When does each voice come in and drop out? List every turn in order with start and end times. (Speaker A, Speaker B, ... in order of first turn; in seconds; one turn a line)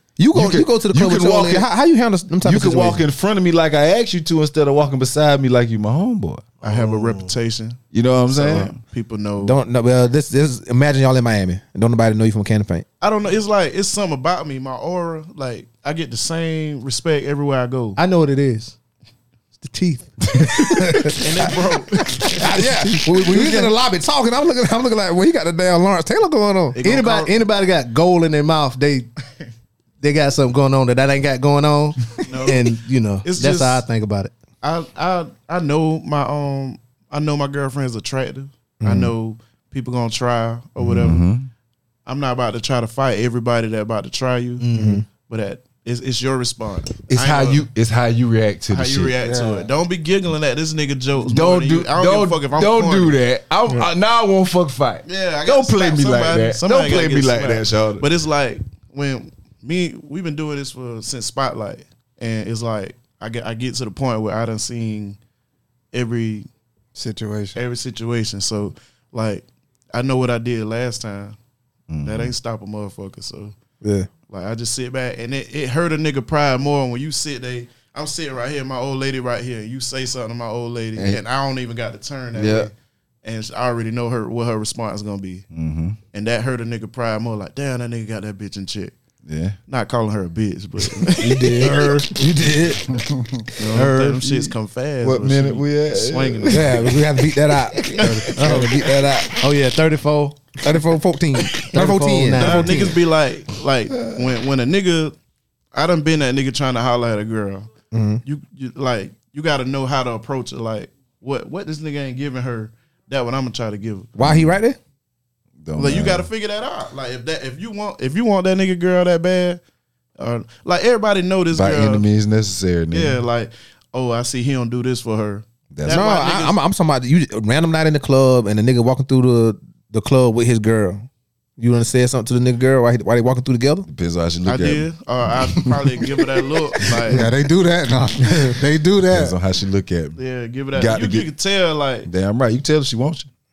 Speaker A: 0.2-3.0
Speaker B: 0.3-1.7
Speaker B: 2.4-6.5
Speaker C: 6.6-7.3
Speaker D: 6.6-9.6
Speaker B: 7.9-8.8
Speaker A: 9.4-12.8
Speaker D: 13.0-18.0
Speaker C: 18.0-18.8
Speaker C: 19.6-21.1
Speaker B: 20.4-20.6
Speaker A: 20.5-21.3
Speaker D: 21.1-22.4
Speaker A: 22.1-26.8
Speaker C: 22.4-23.7
Speaker D: 26.7-27.3
Speaker C: 26.8-29.1
Speaker C: 30.0-34.3
Speaker D: 32.2-32.7
Speaker D: 33.2-33.8
Speaker D: 34.6-41.2
Speaker A: 38.8-39.1
Speaker B: 40.8-41.5
Speaker D: 42.1-47.6
Speaker C: 44.6-45.0
Speaker A: 44.7-45.0
Speaker B: 47.1-49.1
Speaker D: 48.7-53.2
Speaker E: 49.2-49.7
Speaker B: 51.2-58.0
Speaker D: 55.0-65.2
Speaker D: 65.9-66.5
Speaker E: 67.0-67.6
Speaker D: 67.5-71.4
Speaker B: 71.9-72.3
Speaker D: 72.0-73.5
Speaker A: 73.8-74.1
Speaker D: 74.3-82.7
Speaker B: 81.0-81.2
Speaker B: 82.3-82.7
Speaker D: 83.2-85.5
Speaker B: 85.5-86.0
Speaker D: 86.1-89.0
Speaker B: 89.3-89.6
Speaker D: 89.7-92.1
Speaker B: 91.1-92.9
Speaker A: 91.2-92.8
Speaker E: 92.9-93.4
Speaker D: 93.6-96.9
Speaker C: 93.7-94.3
Speaker B: 95.0-99.1
Speaker A: 96.5-99.4
Speaker C: 98.0-100.5
Speaker A: 100.6-103.0
Speaker C: 101.7-102.9
Speaker D: 102.4-105.2
Speaker B: 103.9-104.2
Speaker D: 105.7-107.7
Speaker A: 107.9-108.2
Speaker D: 108.2-114.1
Speaker A: 114.2-114.8
Speaker B: 114.2-114.5
Speaker B: 115.6-116.3
Speaker D: 115.8-119.6
Speaker D: 120.2-122.0
Speaker B: 121.5-123.2
Speaker D: 122.9-126.6
Speaker B: 125.7-126.0
Speaker A: 125.9-131.1
Speaker A: 131.6-133.9
Speaker B: 133.9-134.9
Speaker D: 134.5-137.3
Speaker E: 137.0-139.4
Speaker B: 139.1-140.2
Speaker D: 140.2-142.1
Speaker B: 140.7-141.3
Speaker B: 142.1-143.3